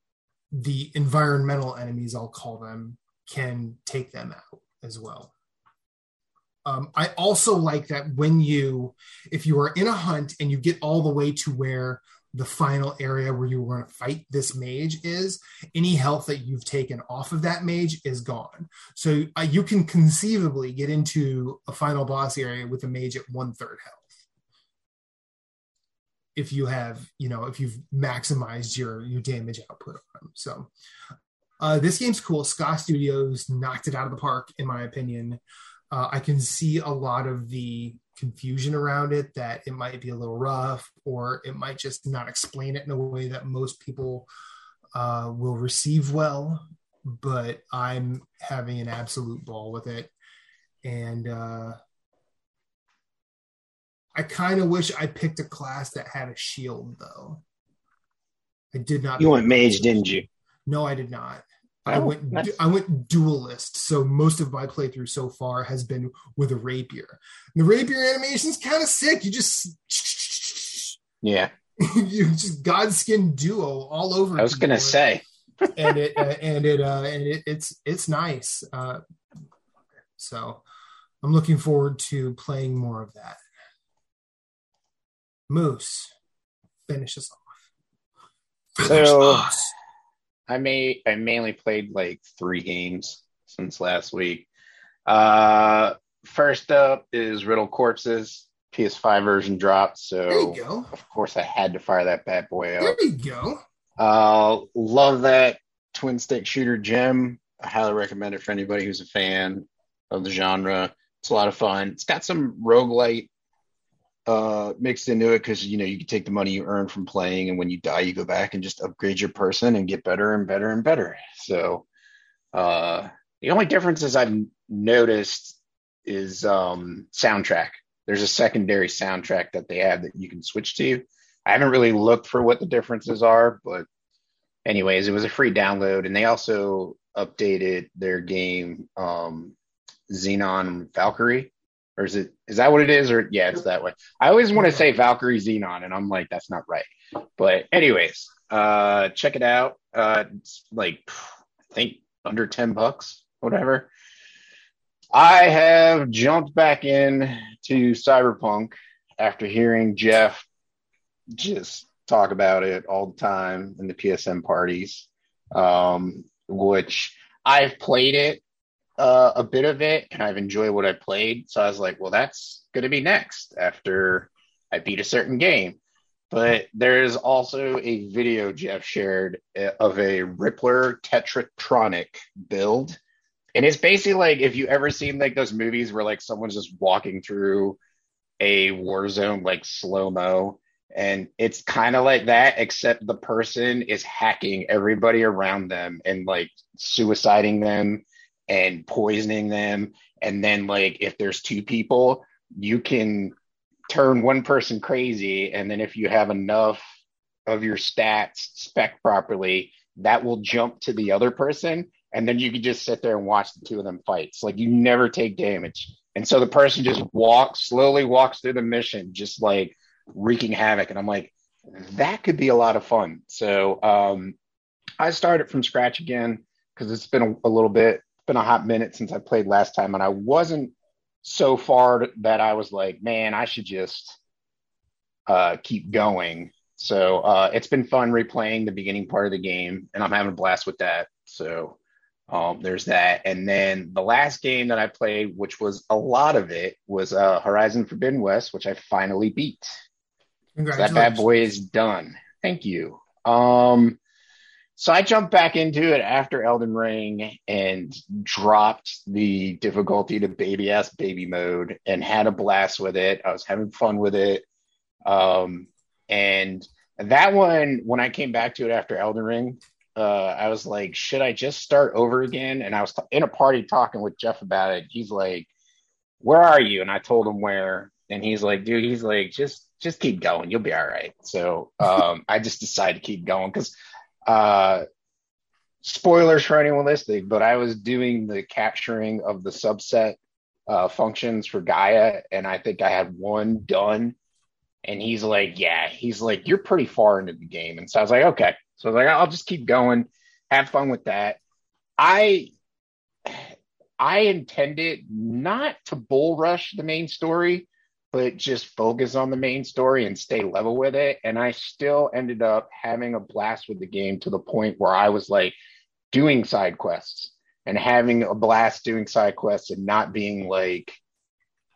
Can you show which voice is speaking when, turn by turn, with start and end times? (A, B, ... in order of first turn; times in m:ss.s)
0:00.5-0:05.3 A
0:06.6-0:24.1 A
0:26.4-0:30.7 A
0:31.6-0:35.4 A
0:35.9-0:44.3 A
0:44.9-0:50.1 A
0:50.8-0:51.8 A
0:54.2-0:57.4 A
0:58.7-1:11.0 A
0:59.2-1:00.2 B
1:01.9-1:02.5 B
1:11.2-1:11.5 B
1:11.8-1:15.0 A
1:14.4-1:15.9 B
1:15.8-1:19.0 A
1:20.2-1:20.6 A
1:21.2-1:23.4 A
1:25.5-1:26.1 A
1:26.9-1:27.5 A
1:28.8-1:29.7 A
1:28.8-1:29.6 B
1:30.5-1:34.5 B
1:35.0-1:43.0 B
1:40.3-1:40.9 A
1:42.8-1:43.6 A
1:44.0-1:53.3 B
1:54.2-2:01.8 B
2:02.5-2:13.8 B
2:14.6-2:19.5 B
2:20.1-2:33.9 B
2:24.6-2:24.8 A
2:35.1-2:40.4 B
2:41.3-2:48.4 B
2:49.0-2:55.8 B
2:56.3-3:03.0 B
3:03.5-3:07.8 B
3:08.4-3:23.3 B
3:23.9-3:26.8 B
3:27.5-3:44.3 B
3:45.0-3:54.2 B
3:55.3-4:01.8 B
4:02.3-4:09.7 B
4:10.6-4:11.5 A
4:10.7-4:14.0 B
4:14.8-4:24.4 B
4:25.0-4:35.5 B
4:36.2-4:43.7 B
4:44.2-4:44.8 B
4:45.8-4:54.1 B
4:54.8-5:01.4 B
5:02.0-5:02.5 B
5:03.2-5:15.5 B
5:16.1-5:21.0 B